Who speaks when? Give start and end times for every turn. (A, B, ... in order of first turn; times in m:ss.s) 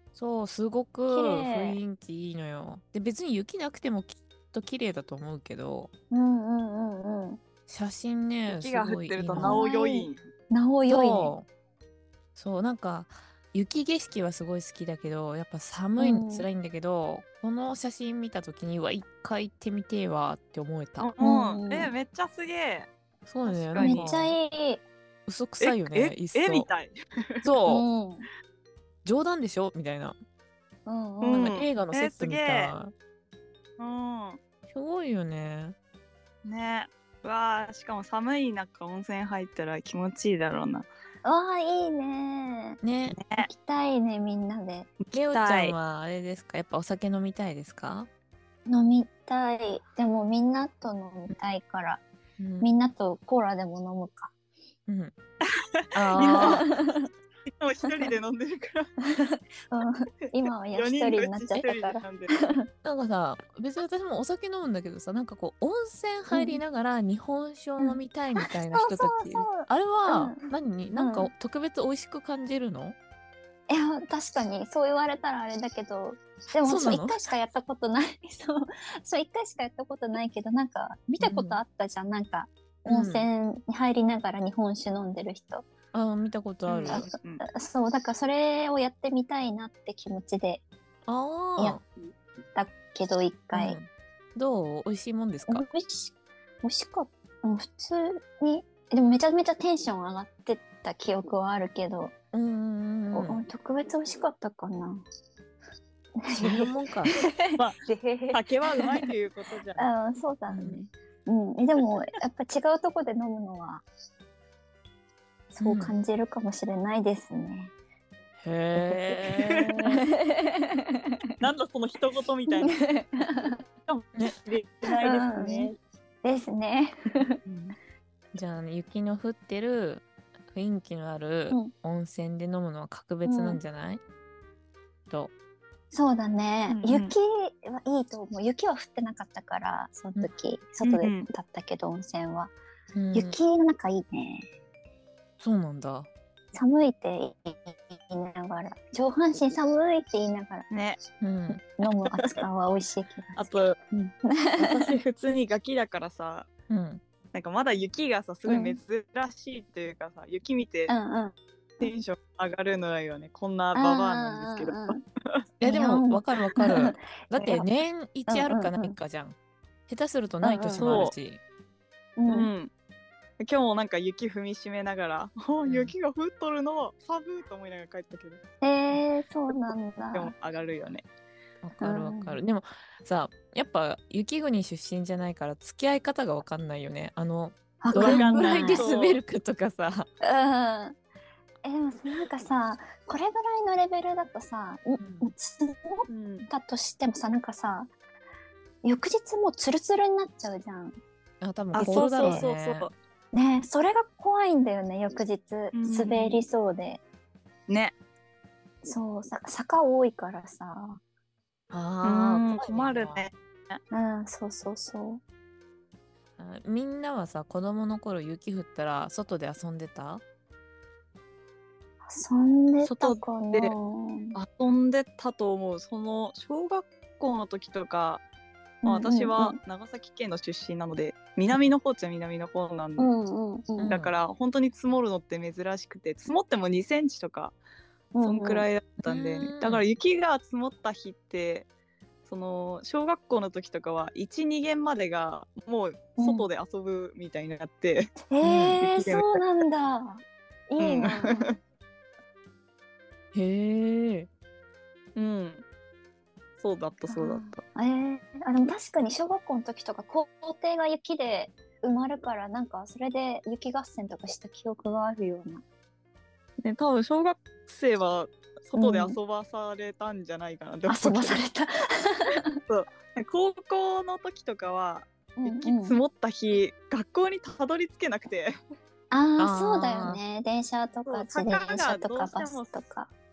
0:00.1-0:05.9 A
0:01.1-0:01.8 B
0:06.1-0:07.4 B
0:07.7-0:09.6 A
0:08.5-0:10.2 C
0:09.3-0:11.3 B
0:10.9-0:11.5 A
0:12.3-0:21.1 A
0:16.0-0:16.5 B
0:21.0-0:22.9 C
0:21.2-0:21.9 B
0:23.2-0:24.3 A
0:23.4-0:24.1 C
0:23.8-0:24.8 B
0:25.2-0:26.7 A
0:25.6-0:27.4 C
0:27.4-0:27.8 A
0:27.7-0:28.3 B
0:29.0-0:30.2 A
0:30.8-0:31.6 B
0:31.2-0:32.7 C
0:31.3-0:32.9 A
0:33.8-0:34.4 C
0:34.7-0:35.8 A
0:36.4-0:40.9 C
0:41.2-0:42.8 B
0:42.8-0:43.2 A
0:43.1-0:43.5 C
0:43.4-0:44.9 B
0:45.0-0:45.8 C
0:45.1-0:48.1 A
0:48.7-0:52.0 B
0:52.4-0:52.7 A
0:52.6-0:54.3 B
0:54.9-0:55.1 A
0:55.5-0:56.6 C
0:55.9-0:56.7 A
0:56.2-0:57.1 B
0:57.5-0:59.0 C
0:59.0-1:02.6 B
1:00.7-1:02.3 C
1:02.8-1:13.0 A
1:06.3-1:06.6 B
1:07.8-1:11.3 B
1:13.7-1:25.6 B
1:16.6-1:17.2 A
1:21.2-1:21.6 A
1:22.9-1:23.3 A
1:25.9-1:27.0 A
1:26.7-1:27.4 C
1:26.9-1:30.6 B
1:31.1-1:31.8 A
1:32.5-1:33.8 B
1:33.5-1:35.6 A
1:35.5-1:42.1 B
1:42.3-1:43.4 A
1:43.1-1:45.0 B
1:46.2-1:49.0 B
1:46.3-1:47.2 A
1:47.6-1:49.9 C
1:49.8-1:53.8 B
1:50.5-1:50.9 A
1:55.5-1:57.7 B
1:55.6-1:55.9 A
1:58.4-1:59.7 A
1:59.5-2:00.0 C
2:00.1-2:01.0 B
2:01.4-2:02.8 C
2:02.5-2:03.6 B
2:03.8-2:05.7 C
2:04.9-2:05.7 B
2:06.2-2:07.4 B
2:07.5-2:07.7 A
2:08.3-2:14.0 A
2:13.2-2:13.6 B
2:15.9-2:22.5 B
2:16.7-2:17.1 C
2:20.8-2:21.3 C
2:22.9-2:23.4 A
2:23.1-2:24.5 B
2:25.4-2:26.1 A
2:26.5-2:30.7 B
2:30.7-2:31.0 C
2:31.2-2:31.6 A
2:31.5-2:34.9 B
2:33.4-2:33.8 C
2:34.6-2:36.5 C
2:36.7-2:37.0 A
2:37.3-2:40.9 C
2:38.4-2:38.8 B
2:40.9-2:41.9 B
2:41.8-2:45.4 C
2:43.7-2:45.0 B
2:45.6-2:49.4 A
2:45.6-2:47.6 B
2:48.3-2:49.0 B
2:49.9-2:51.4 A
2:50.4-2:51.1 B
2:50.8-2:51.1 C
2:52.2-2:52.5 B
2:52.3-2:52.7 C
2:53.4-2:58.4 C
2:55.6-2:55.9 A
2:58.6-3:00.3 B
3:00.1-3:01.0 C
3:01.6-3:10.1 A
3:01.8-3:02.4 B
3:07.8-3:08.8 B
3:07.9-3:09.2 C
3:10.2-3:11.0 B
3:11.6-3:17.9 B
3:15.0-3:15.3 A
3:16.1-3:16.5 C
3:18.8-3:21.0 B
3:21.4-3:22.9 A
3:21.7-3:22.9 C
3:21.8-3:22.4 B
3:23.3-3:27.0 B
3:25.7-3:26.4 C
3:27.7-3:28.0 C
3:28.8-3:31.0 B
3:31.7-3:33.2 A
3:32.0-3:33.8 C
3:33.9-3:35.2 B
3:36.4-3:40.2 A
3:42.1-3:44.4 B
3:42.8-3:43.7 C
3:44.3-3:48.2 C
3:48.8-3:49.6 B
3:48.8-3:53.1 C
3:53.0-3:54.0 B
3:53.8-3:54.1 A
3:53.8-3:57.6 C
3:58.1-3:58.6 B
3:58.2-4:01.7 C
3:59.0-3:59.8 A
4:02.2-4:08.2 C
4:06.2-4:06.5 B
4:08.3-4:11.5 B
4:08.4-4:08.8 A
4:08.8-4:09.4 C
4:10.8-4:11.5 C
4:13.3-4:14.3 A
4:15.1-4:15.6 C
4:16.6-4:17.6 C
4:17.1-4:25.6 B
4:26.6-4:31.4 C
4:28.7-4:29.2 B
4:30.9-4:32.6 B
4:32.6-4:38.5 C
4:35.4-4:36.0 B
4:39.1-4:43.1 B
4:39.4-4:40.2 A
4:41.0-4:42.8 C